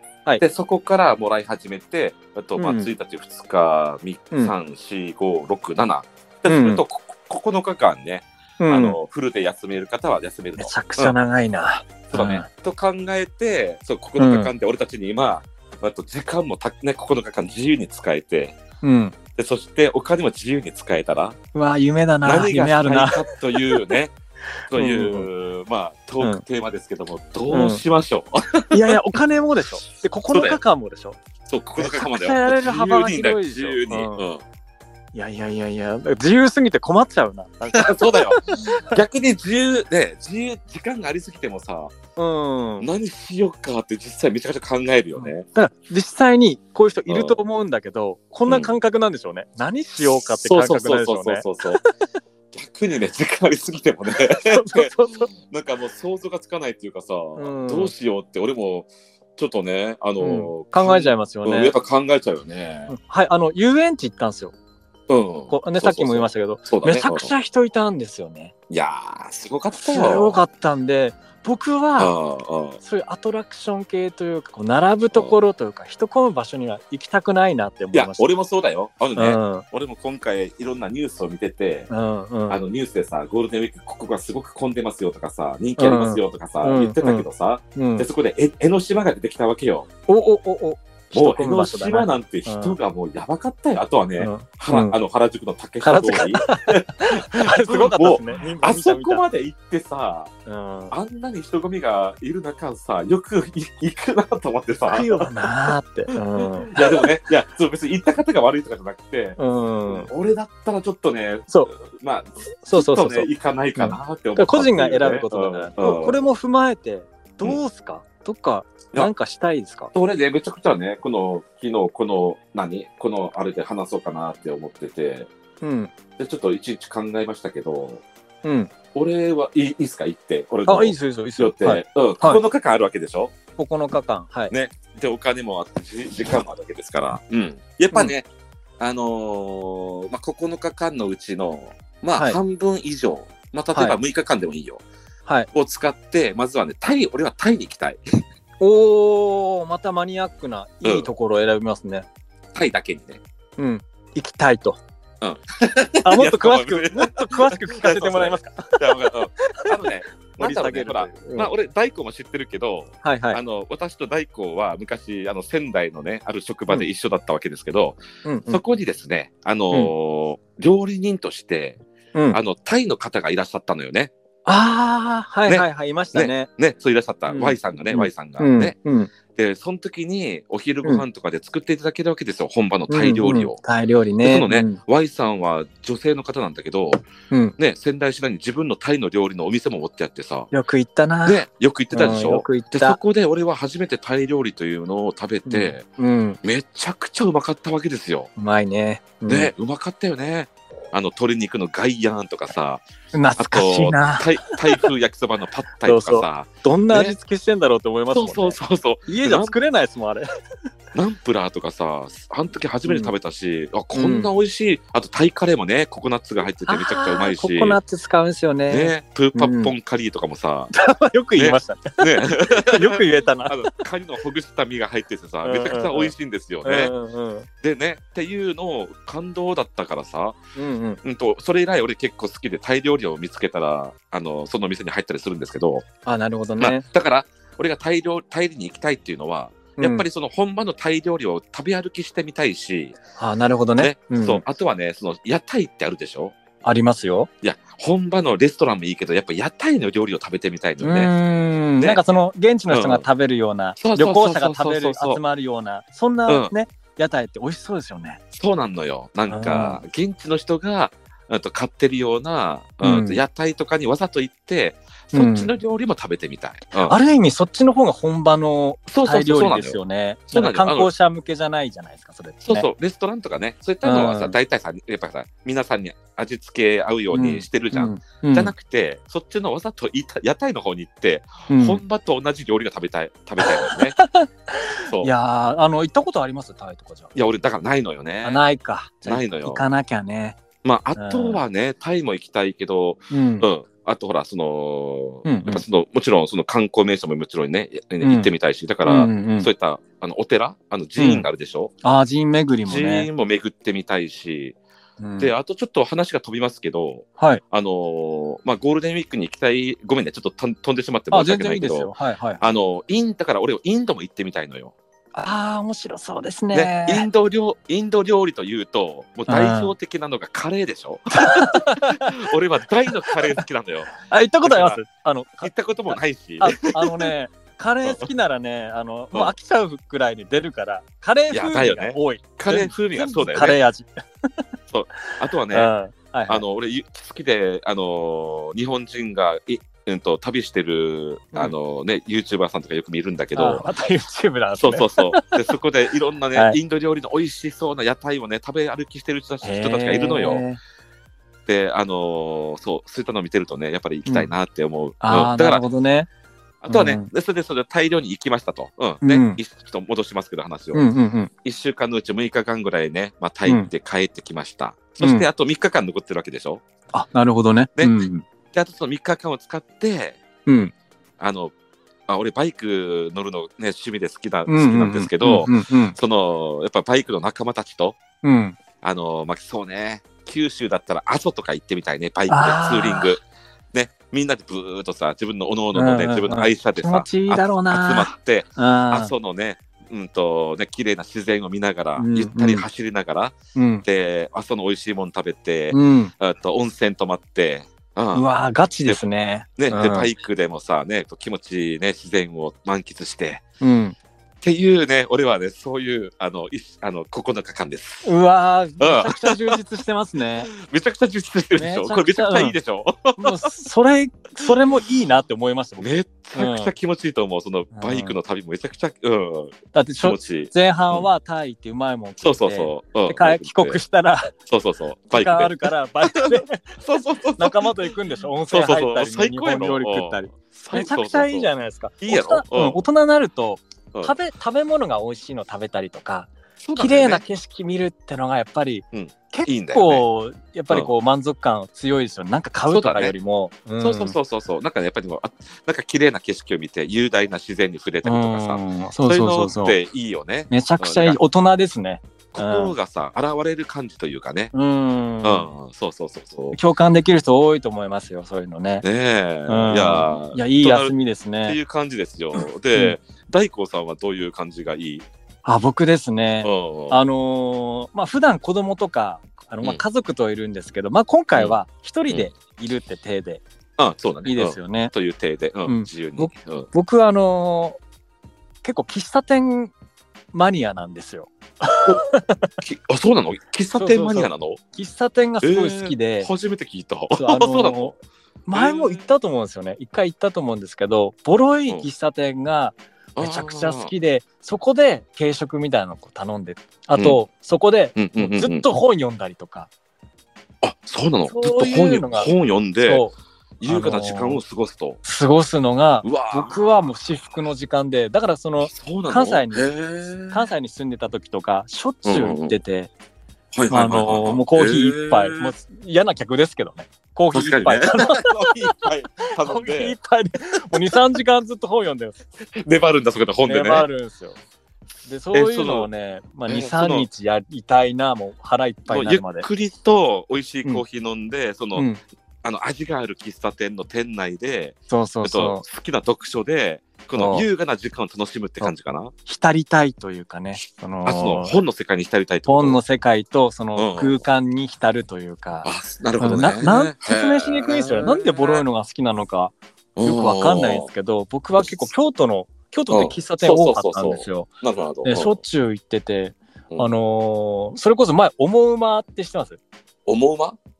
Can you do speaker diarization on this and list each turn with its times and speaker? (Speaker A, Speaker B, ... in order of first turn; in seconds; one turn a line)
Speaker A: 0.4-11.2
Speaker B: 2.6-2.9
Speaker B: 6.5-6.8
Speaker B: 8.6-9.0
Speaker B: 10.6-12.5
Speaker A: 12.1-18.6
Speaker B: 14.2-14.5
Speaker B: 18.8-19.1
Speaker A: 19.4-21.4
Speaker B: 21.5-23.8
Speaker A: 22.2-24.1
Speaker A: 24.7-28.9
Speaker B: 24.7-25.3
Speaker B: 27.5-27.8
Speaker B: 28.7-31.2
Speaker A: 30.3-30.6
Speaker A: 31.5-34.4
Speaker B: 31.8-34.2
Speaker B: 35.1-39.0
Speaker A: 37.7-41.9
Speaker B: 42.2-42.9
Speaker A: 42.8-45.5
Speaker B: 45.2-51.9
Speaker A: 47.1-47.4
Speaker A: 50.2-51.8
Speaker A: 52.5-62.9
Speaker B: 54.5-55.3
Speaker B: 57.4-57.9
Speaker B: 60.2-61.8
Speaker B: 62.9-64.5
Speaker A: 65.1-67.3
Speaker B: 65.5-68.5
Speaker A: 68.7-70.4
Speaker B: 69.8-72.1
Speaker A: 72.0-72.8
Speaker B: 72.8-78.3
Speaker A: 77.9-81.9
Speaker B: 79.2-79.7
Speaker B: 81.9-82.6
Speaker A: 82.5-89.9
Speaker B: 85.8-88.1
Speaker B: 90.1-92.8
Speaker A: 91.1-100.3
Speaker B: 94.2-95.0
Speaker B: 95.8-99.2
Speaker B: 100.5-100.9
Speaker A: 100.9-105.3
Speaker B: 104.9-107.0
Speaker A: 106.4-116.2
Speaker B: 109.4-110.1
Speaker B: 112.6-119.9
Speaker A: 119.9-125.3
Speaker B: 125.6-125.9
Speaker A: 126.2-128.0
Speaker B: 128.4-128.7
Speaker A: 128.9-133.4
Speaker B: 130.7-132.4
Speaker B: 133.6-134.5
Speaker A: 134.5-138.3
Speaker A: 138.8-144.8
Speaker A: 145.5-148.0
Speaker B: 148.6-152.1
Speaker A: 150.8-151.1
Speaker A: 152.5-153.2
Speaker B: 153.6-154.8
Speaker A: 155.2-171.8
Speaker B: 156.0-159.8
Speaker B: 160.4-161.5
Speaker B: 163.0-163.4
Speaker B: 168.2-168.6
Speaker B: 172.1-172.4
Speaker A: 172.3-174.1
Speaker B: 174.5-176.5
Speaker A: 175.5-178.8
Speaker B: 177.3-179.1
Speaker A: 179.3-183.6
Speaker B: 182.9-184.8
Speaker A: 184.2-187.1
Speaker B: 187.3-187.6
Speaker A: 187.6-190.5
Speaker B: 190.5-193.0
Speaker A: 191.2-195.8
Speaker B: 195.5-196.4
Speaker A: 196.4-198.3
Speaker B: 198.4-199.5
Speaker A: 199.3-202.8
Speaker B: 203.1-204.9
Speaker A: 203.4-207.2
Speaker B: 205.8-210.3
Speaker A: 208.1-209.5
Speaker A: 210.9-217.8
Speaker B: 212.8-213.1
Speaker B: 213.9-214.3
Speaker B: 216.7-219.7
Speaker A: 218.7-220.7
Speaker B: 220.7-223.8
Speaker A: 221.4-226.9
Speaker B: 225.4-226.1
Speaker B: 226.6-227.5
Speaker A: 227.6-230.4
Speaker B: 230.6-231.0
Speaker A: 231.0-235.9
Speaker B: 236.1-236.8
Speaker A: 236.6-243.0
Speaker B: 239.8-240.1
Speaker B: 243.2-244.4
Speaker A: 243.8-246.4
Speaker B: 246.6-247.3
Speaker A: 247.4-251.1
Speaker B: 250.8-258.2
Speaker A: 252.7-253.1
Speaker A: 253.8-255.2
Speaker A: 258.3-267.0
Speaker B: 259.3-259.8
Speaker B: 262.8-263.2
Speaker B: 265.1-265.5
Speaker B: 266.8-272.7
Speaker A: 268.9-269.8
Speaker A: 270.3-270.9
Speaker A: 272.4-284.0
Speaker B: 273.8-274.4
Speaker B: 277.1-278.5
Speaker B: 281.5-281.8
Speaker B: 283.4-287.1
Speaker A: 284.8-285.1
Speaker A: 287.1-288.4
Speaker B: 288.2-290.4
Speaker A: 289.1-289.7
Speaker A: 290.6-301.7
Speaker B: 290.9-291.4
Speaker B: 293.1-293.5
Speaker B: 295.2-295.6
Speaker B: 298.0-298.3
Speaker B: 298.8-299.5
Speaker B: 301.0-301.3
Speaker B: 301.8-303.1
Speaker A: 302.7-304.6
Speaker B: 305.0-305.3
Speaker A: 305.2-314.7
Speaker B: 311.1-312.5
Speaker B: 315.1-317.1
Speaker A: 316.5-323.9
Speaker B: 319.3-319.7
Speaker B: 321.1-322.2
Speaker B: 323.1-323.4
Speaker B: 324.0-333.9
Speaker A: 324.4-324.8
Speaker A: 325.4-327.1
Speaker A: 331.3-333.6
Speaker A: 334.7-335.7
Speaker B: 335.5-336.4
Speaker A: 336.3-343.6
Speaker B: 343.4-345.4
Speaker A: 344.6-350.4
Speaker B: 349.4-350.6
Speaker A: 351.5-355.6
Speaker B: 354.1-354.3
Speaker B: 355.0-356.1
Speaker A: 356.6-360.9
Speaker B: 356.7-357.1
Speaker B: 359.0-359.4
Speaker B: 360.7-361.3
Speaker A: 361.4-366.6
Speaker B: 365.0-365.3
Speaker B: 366.9-368.2
Speaker A: 368.5-370.2
Speaker B: 370.5-370.7
Speaker A: 371.2-371.5
Speaker A: 372.1-378.0
Speaker B: 374.5-376.0
Speaker B: 378.2-378.6
Speaker A: 378.8-398.3
Speaker B: 382.3-383.1
Speaker B: 385.7-389.1
Speaker B: 392.0-392.7
Speaker B: 393.6-393.9
Speaker B: 395.7-396.1
Speaker B: 398.1-400.1
Speaker A: 399.6-403.4
Speaker B: 403.6-404.0
Speaker A: 404.4-408.1
Speaker B: 408.0-410.5
Speaker A: 408.8-409.6
Speaker A: 410.5-413.5
Speaker B: 411.6-412.6
Speaker B: 413.2-416.7
Speaker A: 415.8-421.1
Speaker B: 417.7-418.2
Speaker B: 419.7-424.3
Speaker A: 422.2-423.8
Speaker A: 424.5-427.9
Speaker B: 425.1-426.8
Speaker B: 427.4-444.2
Speaker A: 428.5-431.5
Speaker A: 432.0-432.8
Speaker A: 436.6-437.2
Speaker A: 438.9-440.0
Speaker A: 442.7-443.1
Speaker A: 443.8-451.2
Speaker B: 448.0-449.8
Speaker B: 450.5-452.7
Speaker A: 452.3-454.5
Speaker B: 454.5-455.5
Speaker A: 455.2-456.6
Speaker B: 456.5-458.9
Speaker A: 458.8-460.9
Speaker B: 459.5-461.6
Speaker A: 461.4-465.1
Speaker B: 462.4-463.0
Speaker B: 465.4-473.4
Speaker A: 466.4-467.0
Speaker A: 473.8-476.7
Speaker B: 474.2-474.9
Speaker B: 475.7-477.8
Speaker B: 478.6-479.7
Speaker B: 480.3-482.5
Speaker A: 482.6-484.6
Speaker B: 483.8-486.3
Speaker A: 485.4-487.9
Speaker B: 487.1-487.9
Speaker B: 488.5-499.7
Speaker A: 488.5-489.1
Speaker A: 493.2-493.9
Speaker A: 498.0-498.7
Speaker A: 500.6-503.1
Speaker B: 501.3-503.1
Speaker A: 503.6-505.0
Speaker B: 503.7-504.4
Speaker B: 505.0-509.7
Speaker A: 506.0-506.6
Speaker A: 508.7-510.5
Speaker B: 510.3-512.9
Speaker A: 512.0-512.6
Speaker A: 513.5-515.5
Speaker B: 513.7-518.8
Speaker A: 517.3-520.0
Speaker B: 519.4-522.2
Speaker A: 522.4-523.9
Speaker B: 523.4-524.4
Speaker B: 525.0-529.5
Speaker A: 525.3-525.9
Speaker A: 526.5-527.1
Speaker A: 528.9-531.9
Speaker B: 531.8-532.0
Speaker A: 532.4-539.1
Speaker B: 534.9-535.6
Speaker B: 537.1-537.5
Speaker B: 539.3-541.6
Speaker A: 541.0-542.8
Speaker B: 542.5-554.5
Speaker A: 543.8-544.2
Speaker A: 545.6-548.6
Speaker A: 550.0-550.9
Speaker A: 551.6-551.9
Speaker A: 552.9-555.4
Speaker B: 555.0-559.6
Speaker A: 560.1-560.6